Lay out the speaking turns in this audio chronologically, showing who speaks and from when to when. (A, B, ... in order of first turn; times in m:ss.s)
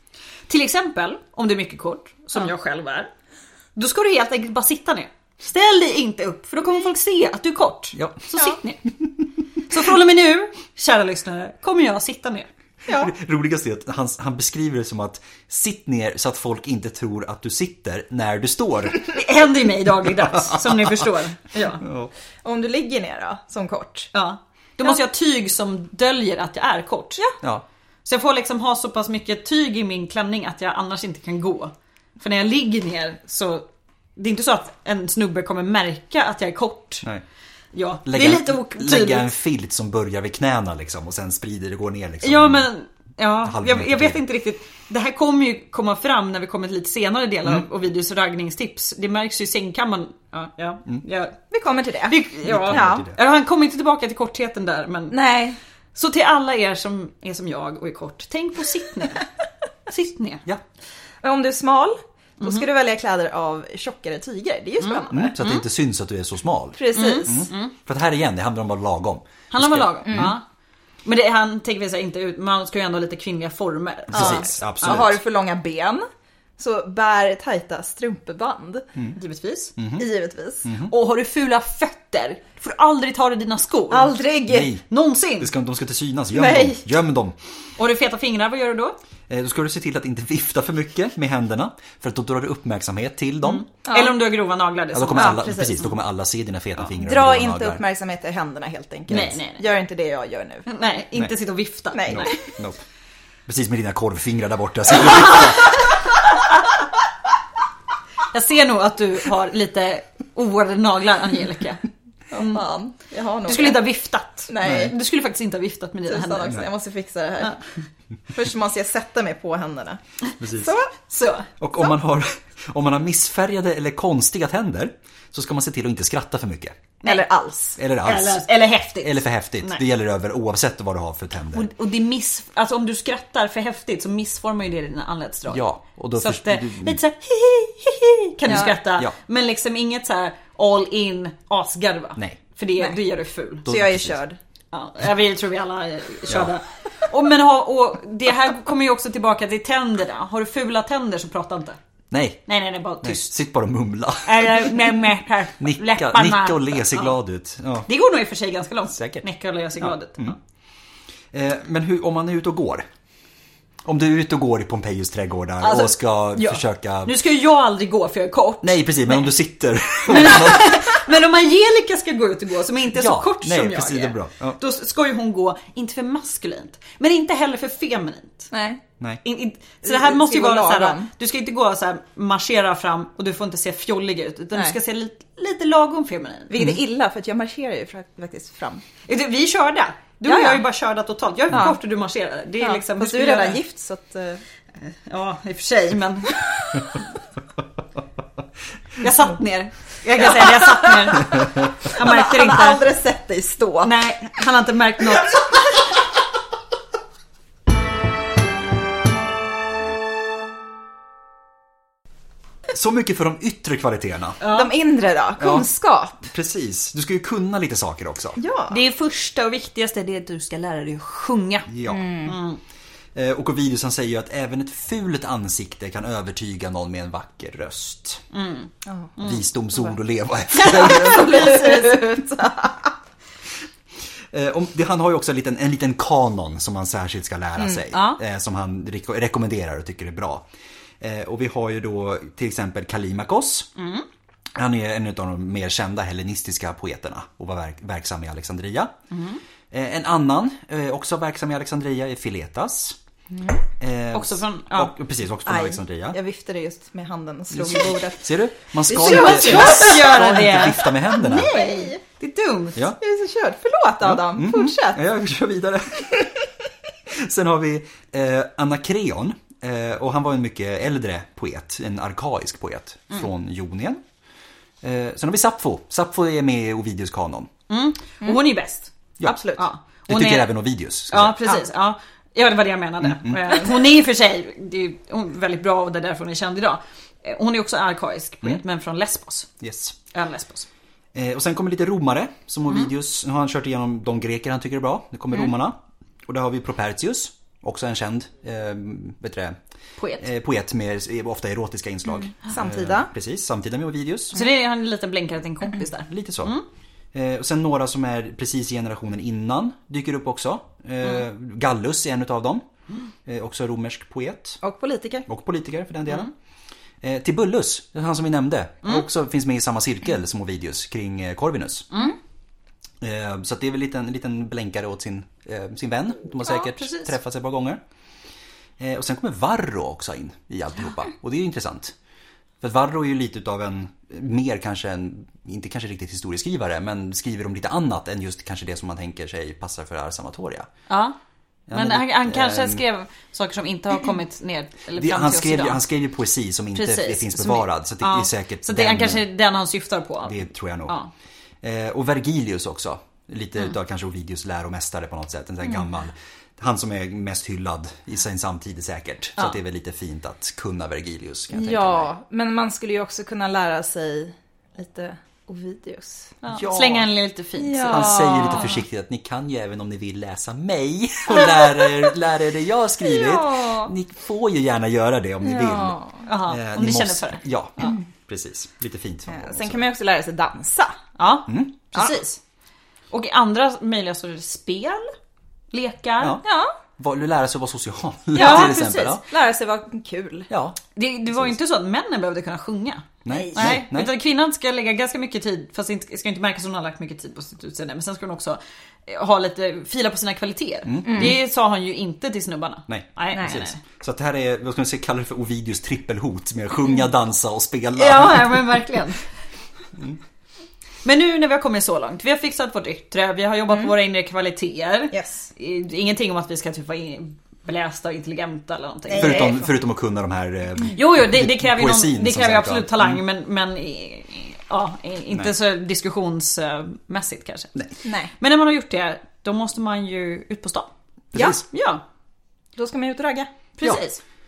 0:00.5-0:03.1 A
0:03.8-0:08.8 A
0:09.6-0:12.5 A
0:12.9-0:13.1 B
0:12.9-0:19.1 C
0:19.0-0:21.8 A
0:20.3-0:21.0 C
0:21.8-0:22.1 C
0:22.4-0:24.1 B
0:24.1-0:27.2 A
0:28.0-0:37.0 A
0:37.7-0:39.3 A
0:38.0-0:42.7 C
0:42.2-0:51.4 A
0:43.4-0:44.2 C
0:51.5-0:53.1 B
0:52.1-0:55.2 A
0:52.4-0:53.2 C
0:55.1-0:55.6 B
0:55.9-0:59.2 A
0:59.9-1:00.4 A
1:01.2-1:05.3 B
1:04.8-1:05.6 A
1:05.1-1:10.4 C
1:06.8-1:07.5 B
1:06.9-1:07.7 A
1:09.5-1:10.4 A
1:11.0-1:15.0 A
1:14.1-1:15.2 C
1:14.1-1:16.0 B
1:16.6-1:18.9 B
1:19.2-1:19.7 A
1:19.8-1:20.0 C
1:20.0-1:20.7 B
1:20.6-1:20.9 C
1:20.8-1:24.2 A
1:23.9-1:24.7 B
1:24.5-1:24.8 C
1:24.9-1:25.5 A
1:25.4-1:27.4 C
1:26.3-1:26.8 B
1:27.8-1:29.0 A
1:29.3-1:33.6 C
1:33.4-1:35.9 A
1:33.8-1:34.1 B
1:34.9-1:37.8 C
1:35.2-1:35.5 B
1:36.8-1:40.7 B
1:39.1-1:39.7 A
1:40.7-1:42.4 A
1:41.9-1:42.5 B
1:42.1-1:42.8 C
1:43.5-1:45.8 C
1:48.3-1:52.6 A
1:52.3-1:53.8 B
1:53.4-1:56.6 A
1:54.5-1:55.0 B
1:54.6-1:54.9 C
1:56.1-1:57.6 B
1:58.3-2:00.9 B
2:00.4-2:00.7 C
2:01.0-2:01.5 A
2:01.6-2:06.8 C
2:07.0-2:07.8 B
2:07.8-2:08.4 C
2:08.0-2:09.8 A
2:09.0-2:11.7 C
2:11.5-2:15.6 A
2:15.5-2:17.0 C
2:16.2-2:23.7 A
2:18.5-2:18.7 B
2:18.5-2:19.1 C
2:23.6-2:24.2 C
2:23.6-2:24.4 B
2:24.7-2:31.8 A
2:26.3-2:26.5 C
2:32.1-2:32.4 C
2:32.5-2:33.3 A
2:33.0-2:34.9 C
2:34.2-2:37.1 A
2:35.6-2:37.9 C
2:37.9-2:40.4 A
2:38.9-2:39.2 C
2:39.8-2:40.4 C
2:41.3-2:42.8 C
2:43.8-2:47.2 C
2:45.6-2:49.3 A
2:48.6-2:51.0 C
2:50.0-2:58.5 A
2:52.9-2:54.6 C
2:58.5-2:58.8 B
2:59.2-3:06.6 A
2:59.8-3:01.1 B
3:06.5-3:08.8 B
3:09.1-3:13.6 A
3:10.2-3:10.6 B
3:11.5-3:11.8 B
3:12.6-3:14.4 B
3:14.8-3:16.8 A
3:19.0-3:22.8 A
3:20.4-3:23.9 B
3:23.8-3:25.4 A
3:32.7-3:34.4 C
3:34.4-3:34.7 A
3:34.4-3:36.3 B
3:35.4-3:35.6 C
3:36.3-3:38.4 C
3:38.4-3:38.8 B
3:38.7-3:41.7 A
3:41.7-3:42.0 C
3:41.9-3:42.4 B
3:42.2-3:42.6 A
3:43.1-3:48.2 C
3:48.3-3:49.4 A
3:48.8-3:49.1 B
3:49.2-3:51.6 C
3:50.5-3:52.0 A
3:50.7-3:52.9 B
3:54.3-4:00.4 C
3:57.9-3:58.2 A
4:01.0-4:03.7 C
4:03.8-4:04.0 A
4:04.5-4:08.9 C
4:09.1-4:09.4 A
4:09.7-4:13.0 C
4:13.3-4:13.6 B
4:13.8-4:16.2 C
4:14.1-4:14.9 A
4:15.4-4:18.4 B
4:17.5-4:21.5 C
4:18.9-4:20.1 B
4:18.9-4:22.8 A
4:21.1-4:22.0 B
4:23.0-4:25.0 B
4:24.0-4:26.3 C
4:27.1-4:34.0 C
4:34.8-4:37.5 C
4:37.7-4:40.5 A
4:39.2-4:39.5 C
4:39.2-4:39.6 B
4:40.1-4:41.4 C
4:41.1-4:49.5 A
4:43.0-4:43.5 C
4:49.6-4:50.0 C
4:50.1-4:50.7 A
4:51.1-4:59.6 C
5:00.0-5:00.3 A
5:00.2-5:04.4 C
5:02.3-5:03.1 B
5:04.3-5:06.6 A
5:06.1-5:06.5 C
5:07.1-5:12.6 C
5:13.2-5:14.6 C
5:14.6-5:15.2 B
5:15.3-5:16.3 C
5:17.0-5:21.9 C
5:23.0-5:27.8 C
5:26.4-5:27.1 A
5:28.8-5:31.9 C
5:32.6-5:40.7 C
5:40.9-5:41.1 A
5:41.7-5:42.8 C
5:41.7-5:45.8 A
5:45.0-5:49.2 C
5:46.7-5:51.1 A
5:50.2-5:51.0 C
5:51.6-6:02.1 C
6:01.5-6:06.4 B
6:06.4-6:08.7 A
6:06.5-6:07.1 C
6:07.6-6:08.8 B
6:07.9-6:19.8 C
6:11.4-6:12.0 B
6:13.0-6:13.9 B
6:15.4-6:16.2 B
6:16.2-6:17.9 A
6:19.3-6:21.0 B
6:21.2-6:22.4 A
6:21.5-6:21.7 C
6:23.1-6:25.1 A
6:25.7-6:26.4 A
6:26.2-6:26.4 C
6:26.4-6:26.7 B
6:27.0-6:29.2 C
6:28.3-6:29.2 A
6:28.3-6:30.5 B
6:30.5-6:30.8 C
6:30.9-6:43.8 A
6:33.2-6:34.1 C
6:33.3-6:33.7 B
6:40.8-6:41.4 C
6:41.1-6:41.3 B
6:42.9-6:48.7 C
6:43.3-6:43.6 B
6:48.0-6:49.2 A
6:51.0-6:59.6 A
6:55.1-6:55.5 B
6:59.1-6:59.6 B
6:59.2-7:03.2 C
7:00.9-7:07.7 A
7:08.0-7:08.3 B
7:08.4-7:10.9 A
7:11.3-7:11.6 C
7:11.3-7:11.6 B
7:11.7-7:12.0 A
7:12.8-7:13.5 B
7:13.8-7:14.2 A